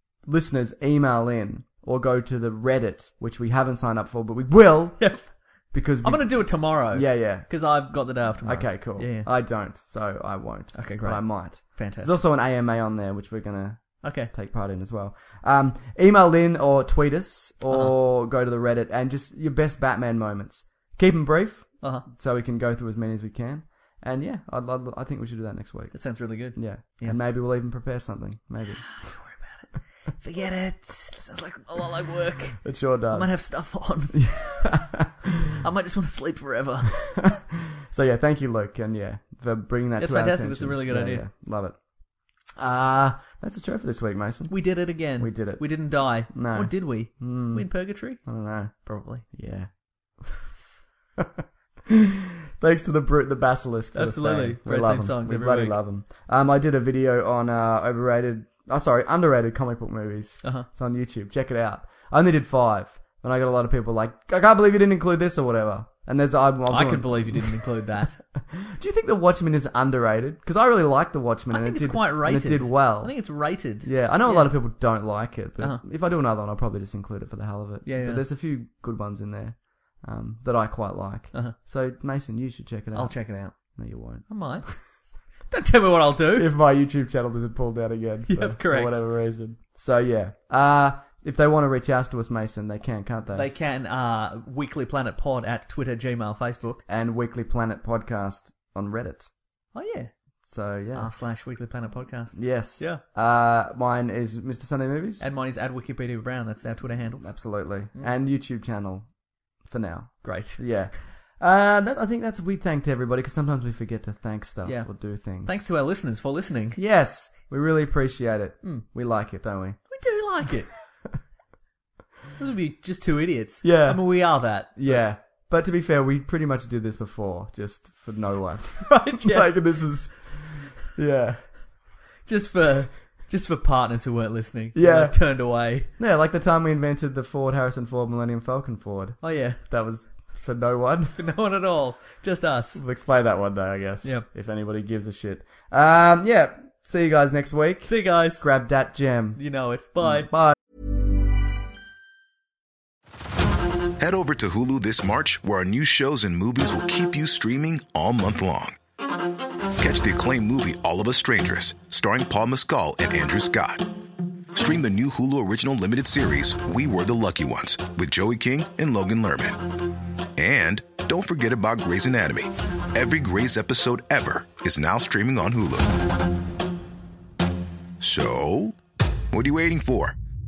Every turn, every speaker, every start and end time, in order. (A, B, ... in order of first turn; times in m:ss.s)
0:00.2-0:05.2 A
0:05.0-0:05.3 B
0:05.7-0:07.7 A
0:06.0-0:09.3 B
0:08.4-0:25.9 A
0:10.7-0:12.1 B
0:14.0-0:14.3 B
0:25.9-0:27.2 B
0:26.4-0:28.8 A
0:29.0-0:29.6 B
0:30.2-0:34.7 B
0:32.6-0:33.4 A
0:34.1-0:35.5 A
0:35.6-0:37.3 B
0:37.9-0:41.8 A
0:40.0-0:41.2 B
0:42.5-0:47.7 A
0:44.5-0:49.2 B
0:48.2-0:49.7 A
0:51.2-1:07.6 A
0:53.9-0:55.8 B
1:06.7-1:08.2 B
1:08.5-1:13.1 A
1:11.5-1:14.5 B
1:13.8-1:23.2 A
1:17.8-1:18.2 B
1:22.9-1:23.5 B
1:23.7-1:24.3 A
1:24.3-1:24.7 B
1:25.5-1:26.5 B
1:26.3-1:33.5 A
1:28.3-1:29.0 B
1:33.3-1:36.8 B
1:36.9-1:39.3 A
1:39.7-1:40.1 B
1:40.5-1:41.1 A
1:40.9-1:43.0 B
1:42.3-1:45.2 A
1:45.2-1:48.1 B
1:47.2-1:49.1 A
1:49.6-1:55.6 A
1:50.2-1:50.8 B
1:54.6-1:56.8 B
1:56.8-1:59.8 A
1:59.9-2:00.7 B
2:02.4-2:05.0 B
2:03.6-2:11.5 A
2:08.8-2:09.6 B
2:12.2-2:15.9 B
2:14.7-2:15.2 A
2:16.0-2:21.2 A
2:19.2-2:19.6 B
2:21.2-2:22.8 B
2:22.7-2:29.4 A
2:27.9-2:28.5 B
2:29.4-2:30.3 B
2:30.0-2:30.6 A
2:34.0-2:38.8 C
2:39.8-2:43.9 C
2:44.5-2:49.6 C
2:50.4-2:56.0 C
2:58.0-2:58.8 C
2:59.3-3:00.2 C